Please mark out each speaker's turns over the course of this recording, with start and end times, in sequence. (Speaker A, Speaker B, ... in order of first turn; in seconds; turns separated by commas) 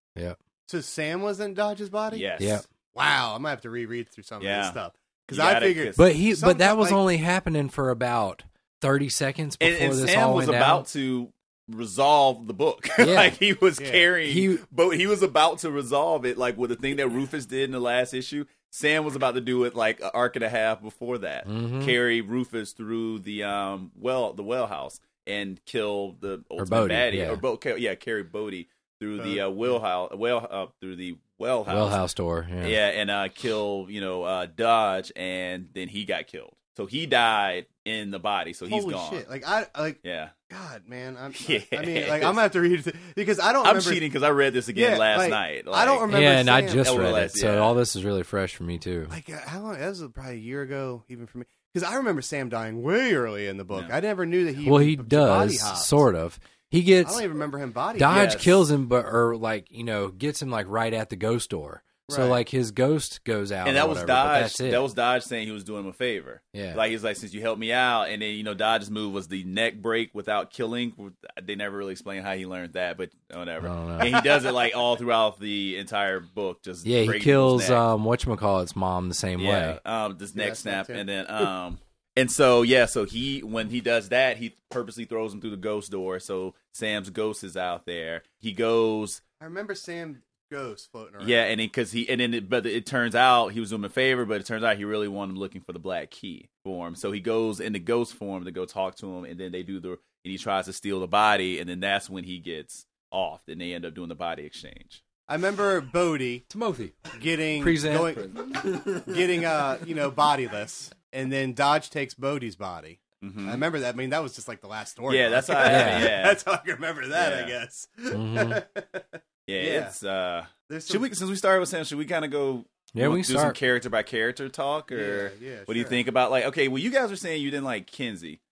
Speaker A: 0.7-2.2, Speaker B: 2.1-2.6, Speaker C: 2.4-2.6, Speaker A: 2.9-7.0, Speaker B: 4.4-4.8, Speaker B: 5.3-6.0, Speaker C: 6.0-10.8, Speaker B: 9.6-32.0, Speaker C: 13.0-13.4, Speaker A: 13.8-14.1, Speaker C: 14.2-14.6, Speaker C: 21.4-22.0, Speaker C: 26.6-27.4, Speaker A: 29.2-29.8, Speaker C: 31.7-32.8, Speaker B: 32.6-39.2, Speaker A: 38.7-44.0, Speaker B: 40.0-40.3, Speaker B: 41.3-42.4, Speaker B: 43.6-46.1, Speaker A: 44.7-47.1, Speaker C: 46.1-49.1, Speaker B: 46.8-47.8, Speaker A: 49.1-56.0, Speaker C: 54.6-57.2, Speaker A: 57.0-58.5, Speaker C: 58.0-64.8, Speaker B: 58.1-58.6, Speaker A: 62.1-62.4, Speaker B: 63.6-77.8, Speaker C: 66.5-66.8, Speaker C: 73.6-74.1, Speaker A: 74.0-74.5, Speaker C: 76.8-79.8, Speaker B: 79.4-89.2, Speaker A: 80.3-81.0, Speaker A: 89.4-91.5, Speaker B: 91.2-105.0, Speaker A: 105.3-106.5, Speaker C: 106.5-109.3, Speaker A: 107.1-119.9, Speaker B: 113.2-113.6, Speaker B: 115.1-116.4, Speaker C: 115.6-116.2, Speaker B: 117.1-117.5, Speaker C: 118.1-118.6, Speaker B: 119.5-128.4, Speaker A: 120.7-121.0, Speaker C: 122.9-123.6, Speaker A: 124.9-126.0